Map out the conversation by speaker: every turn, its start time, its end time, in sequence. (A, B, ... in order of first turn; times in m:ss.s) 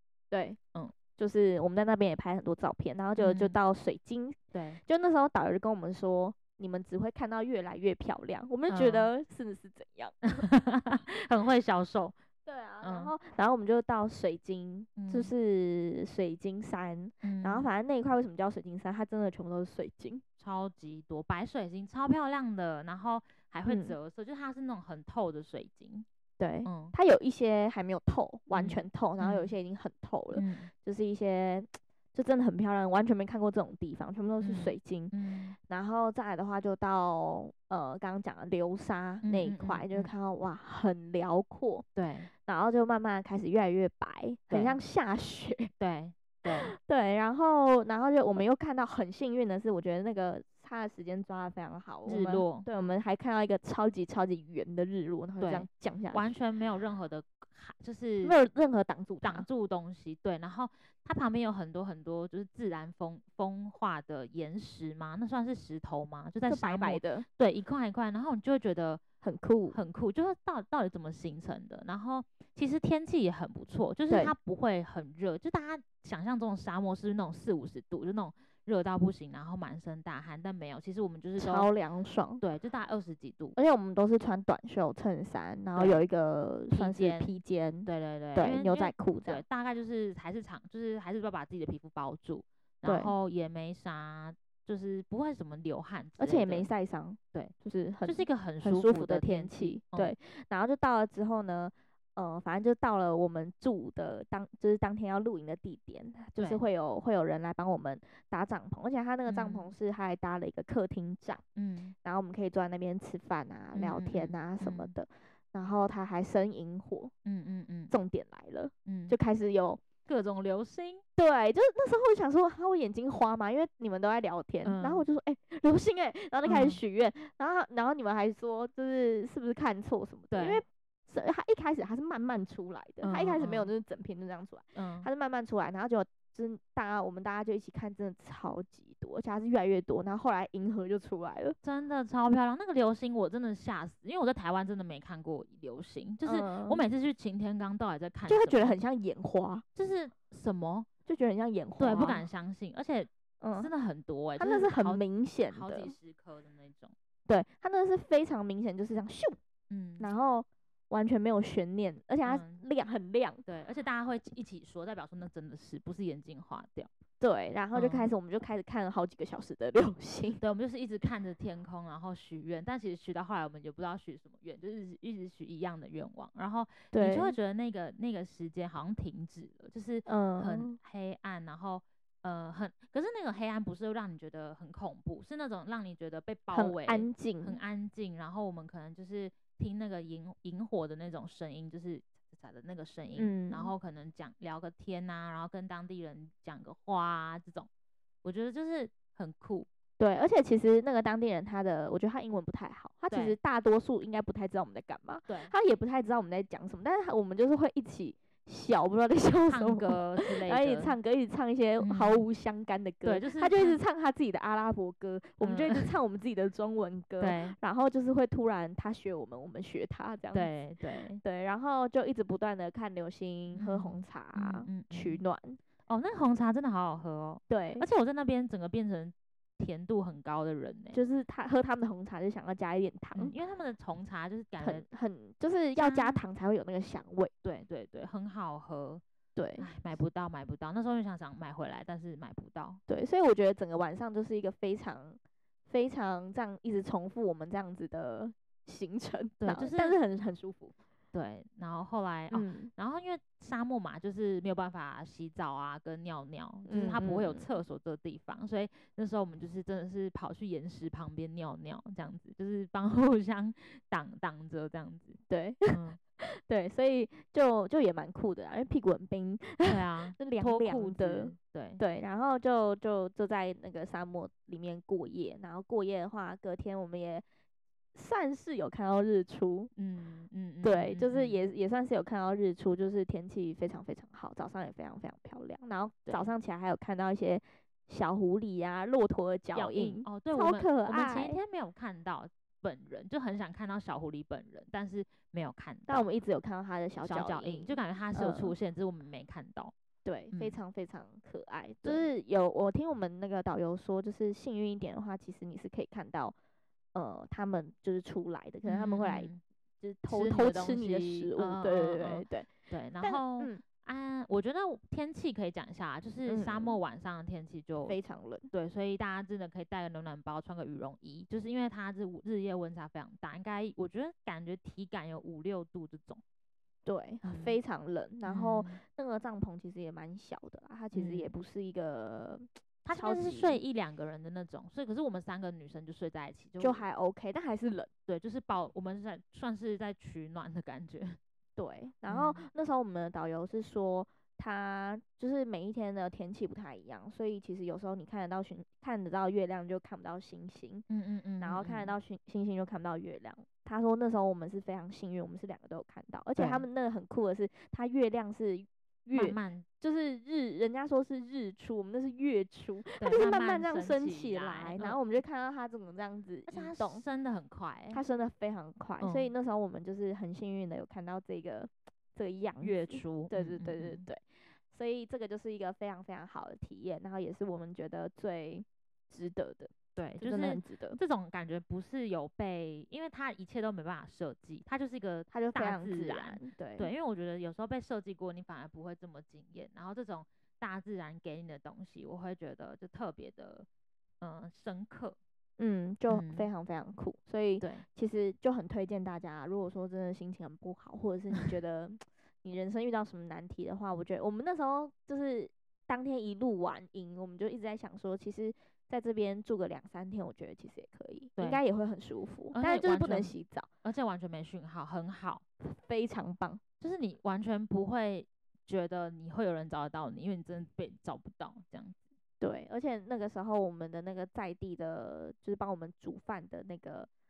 0:00.3-0:00.6 A
0:01.2-0:10.2 A
0:03.2-0:03.6 B
0:04.5-0:04.8 B
0:08.7-0:09.1 B
0:10.3-0:12.2 B
0:12.4-0:20.2 A
0:12.8-0:13.1 B
0:15.0-0:15.3 B
0:17.2-0:17.7 B
0:20.4-0:26.1 B
0:23.6-0:24.0 A
0:26.4-0:41.9 A
0:26.6-0:26.9 B
0:28.5-0:29.5 B
0:30.3-0:30.7 B
0:34.4-0:35.6 B
0:39.2-0:40.1 B
0:42.0-0:42.3 B
0:42.4-0:45.7 A
0:44.5-0:44.8 B
0:45.8-0:46.7 B
0:46.6-0:56.3 A
0:52.1-0:52.7 B
0:55.4-0:58.4 B
0:58.2-0:59.4 A
0:59.2-1:09.0 B
1:06.5-1:07.3 A
1:09.2-1:09.8 A
1:09.7-1:21.7 B
1:21.4-1:22.4 A
1:22.4-1:23.6 B
1:23.6-1:29.4 A
1:25.8-1:26.1 B
1:26.7-1:36.7 B
1:32.8-1:33.1 A
1:36.2-1:51.4 A
1:38.0-1:40.1 B
1:49.3-1:49.7 B
1:51.6-1:51.9 B
1:52.0-1:57.1 A
1:53.7-1:54.9 B
1:57.2-1:57.9 B
1:57.9-1:59.8 A
1:58.9-1:59.2 B
2:00.1-2:01.0 B
2:01.2-2:21.6 A
2:04.6-2:05.0 B
2:06.4-2:06.8 B
2:10.3-2:10.6 B
2:13.0-2:13.7 B
2:14.8-2:15.1 B
2:21.6-2:28.8 B
2:26.2-2:26.8 A
2:28.3-2:29.6 A
2:29.8-2:30.9 B
2:31.1-2:32.2 A
2:31.8-2:36.9 B
2:33.4-2:33.7 A
2:34.4-2:35.9 A
2:37.3-2:39.4 A
2:39.7-2:40.1 B
2:40.0-2:43.4 A
2:42.2-2:42.6 B
2:43.4-2:46.9 B
2:47.2-2:50.4 A
2:47.7-2:48.1 B
2:50.4-3:17.7 B
2:56.9-2:57.4 A
3:00.1-3:00.8 A
3:06.5-3:07.6 A
3:13.2-3:13.7 A
3:18.2-3:19.7 B
3:20.0-3:40.5 A
3:23.1-3:23.4 B
3:25.3-3:25.5 B
3:29.5-3:30.9 B
3:31.8-3:32.2 B
3:33.0-3:33.8 B
3:35.4-3:35.9 B
3:37.2-3:37.6 B
3:40.3-3:41.2 B
3:41.2-3:45.6 A
3:43.5-3:45.2 B
3:45.9-3:51.0 B
3:47.5-3:47.9 A
3:50.9-3:53.4 A
3:53.2-3:54.8 B
3:54.6-3:57.3 A
3:55.8-3:56.2 B
3:57.4-3:59.0 B
3:59.4-3:59.7 A
3:59.6-4:02.8 B
4:02.9-4:10.7 A
4:09.4-4:10.0 B
4:11.1-4:26.0 B
4:12.3-4:12.7 A
4:16.7-4:17.5 A
4:25.3-4:37.2 A
4:29.6-4:31.8 B
4:37.9-4:39.7 A
4:39.8-4:41.4 B
4:40.6-4:51.4 A
4:49.5-4:56.1 B
4:55.9-4:58.5 A
4:57.0-4:59.7 B
5:00.0-5:06.4 A
5:00.3-5:00.6 B
5:01.8-5:02.1 B
5:06.9-5:13.6 A
5:08.6-5:09.4 B
5:10.1-5:18.0 B
5:16.2-5:16.8 A
5:17.9-5:18.5 A
5:18.5-5:26.2 B
5:26.9-5:33.6 A
5:27.2-5:27.6 B
5:28.2-5:28.8 B
5:30.9-5:31.3 B
5:32.8-5:36.9 B
5:36.6-5:37.9 A
5:38.1-5:41.2 B
5:41.6-5:50.9 A
5:42.1-5:42.5 B
5:50.9-5:51.9 B
5:51.4-6:07.0 A
5:56.4-5:56.6 B
5:59.2-5:59.6 B
6:03.0-6:05.0 B
6:06.5-6:08.0 B
6:07.9-6:21.0 A
6:09.0-6:09.3 B
6:12.6-6:14.1 B
6:20.0-6:33.7 B
6:25.3-6:26.9 A
6:34.2-6:35.2 B
6:35.6-6:53.7 A
6:36.1-6:36.5 B
6:37.6-6:37.8 B
6:51.4-6:51.6 B
6:52.5-6:55.4 B
6:55.6-6:56.6 A
6:56.8-7:02.0 B
7:02.4-7:07.1 A